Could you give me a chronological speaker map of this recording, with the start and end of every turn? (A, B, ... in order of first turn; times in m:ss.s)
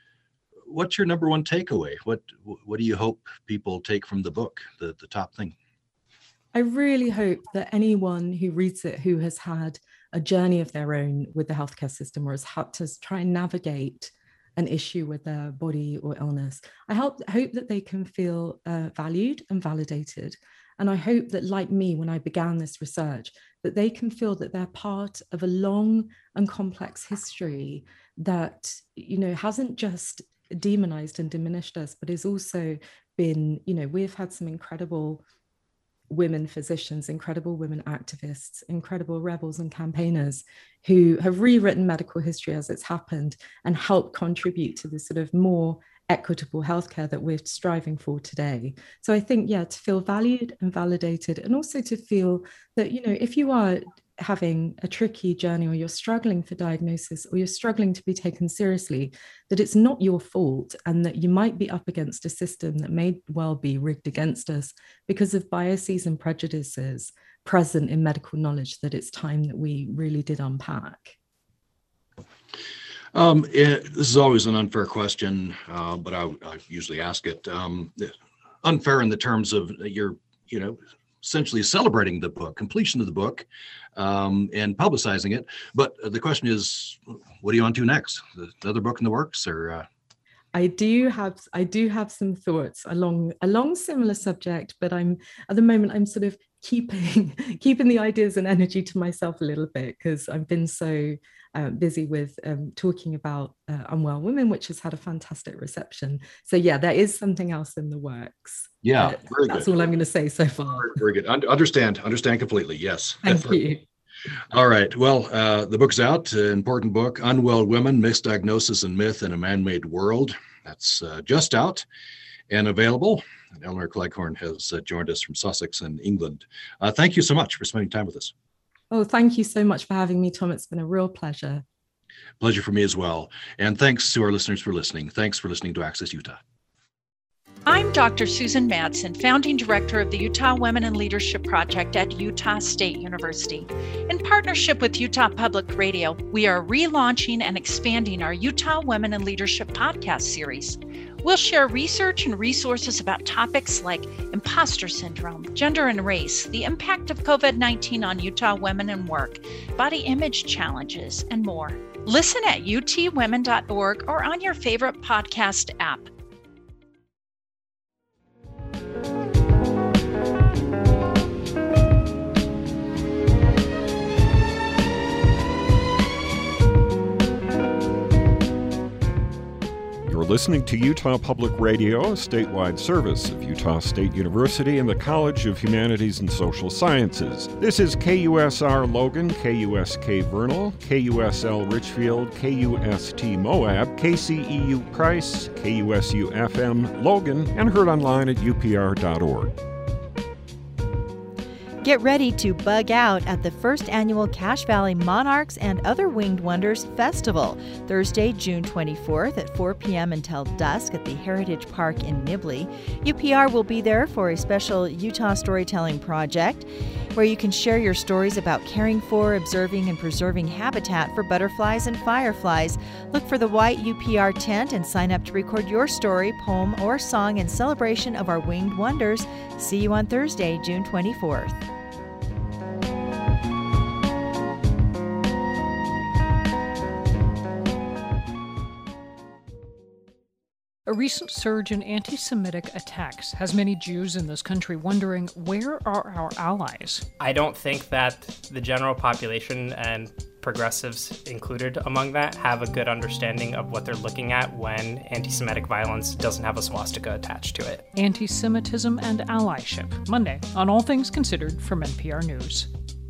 0:00.7-0:05.6 A
0:06.5-0:35.2 B
0:36.1-1:11.2 B
1:13.1-1:29.9 A
1:30.5-1:51.0 B
1:48.8-1:49.7 A
1:50.7-1:53.6 A
1:53.2-1:53.8 B
1:54.5-2:01.8 A
2:02.5-2:08.3 A
2:08.9-2:11.6 B
2:12.4-2:16.4 A
2:17.6-2:46.1 C
3:00.0-3:19.5 D
3:21.8-3:51.6 E
4:00.8-4:07.1 F
4:07.2-4:17.8 G
4:17.9-4:22.7 F